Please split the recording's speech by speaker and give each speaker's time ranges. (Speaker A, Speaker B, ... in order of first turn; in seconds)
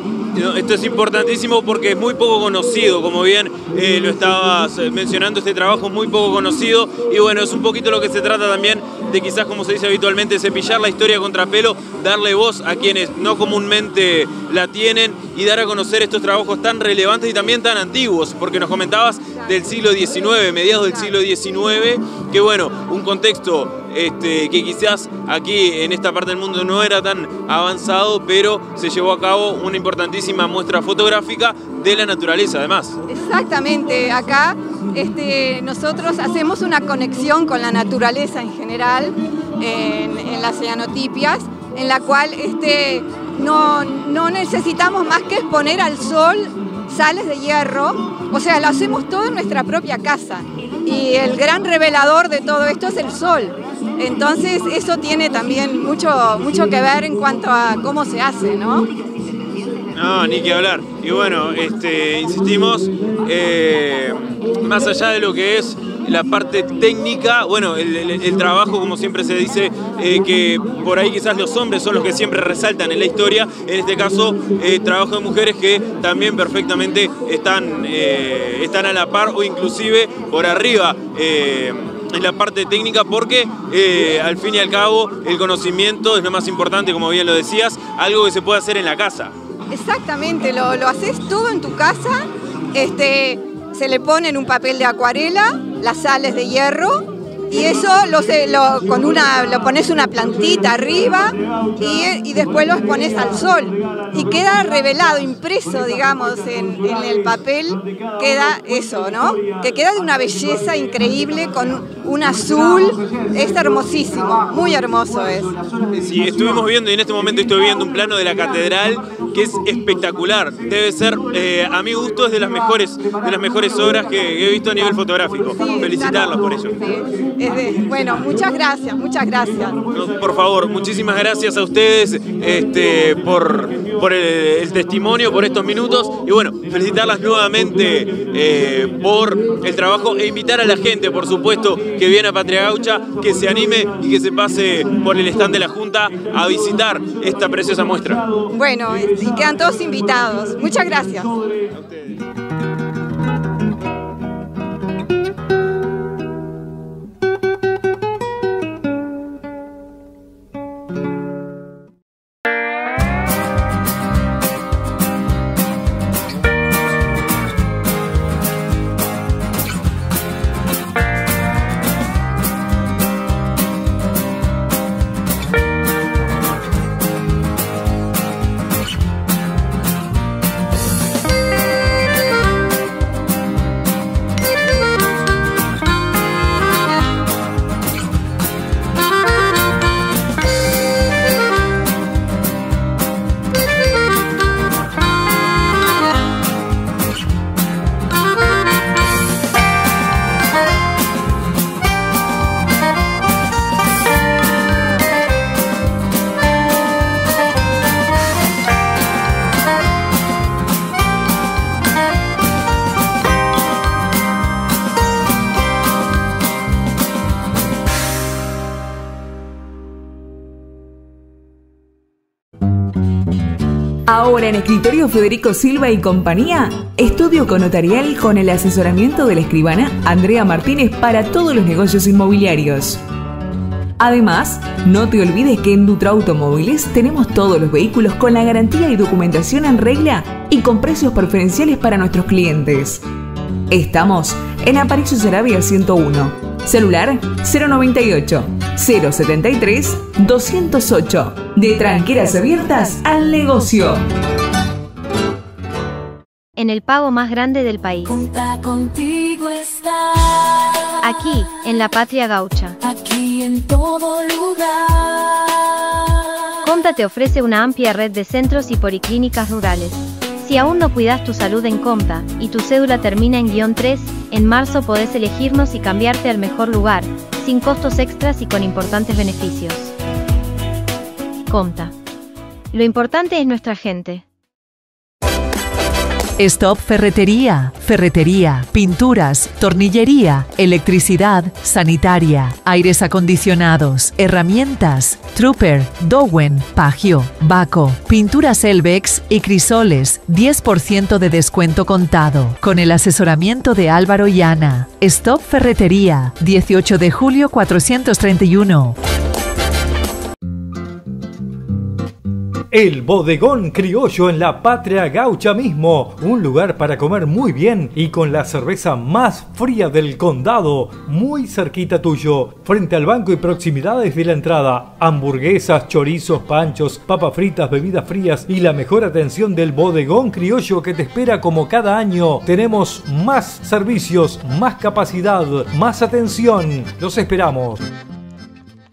Speaker A: 0.3-33.0, 59.9-89.3, 116.0-126.8, 129.9-148.3, 151.7-152.2
Speaker B: 33.1-58.9, 89.7-115.5, 125.5-129.8, 148.5-151.3
Speaker C: 224.1-233.0, 234.0-243.0, 243.7-254.0
Speaker D: 256.6-258.1, 261.0-262.8, 266.6-279.9, 281.5-281.9, 282.7-284.2
Speaker E: 258.1-261.5, 262.8-265.8
Speaker F: 286.4-309.0
Speaker G: 312.7-337.8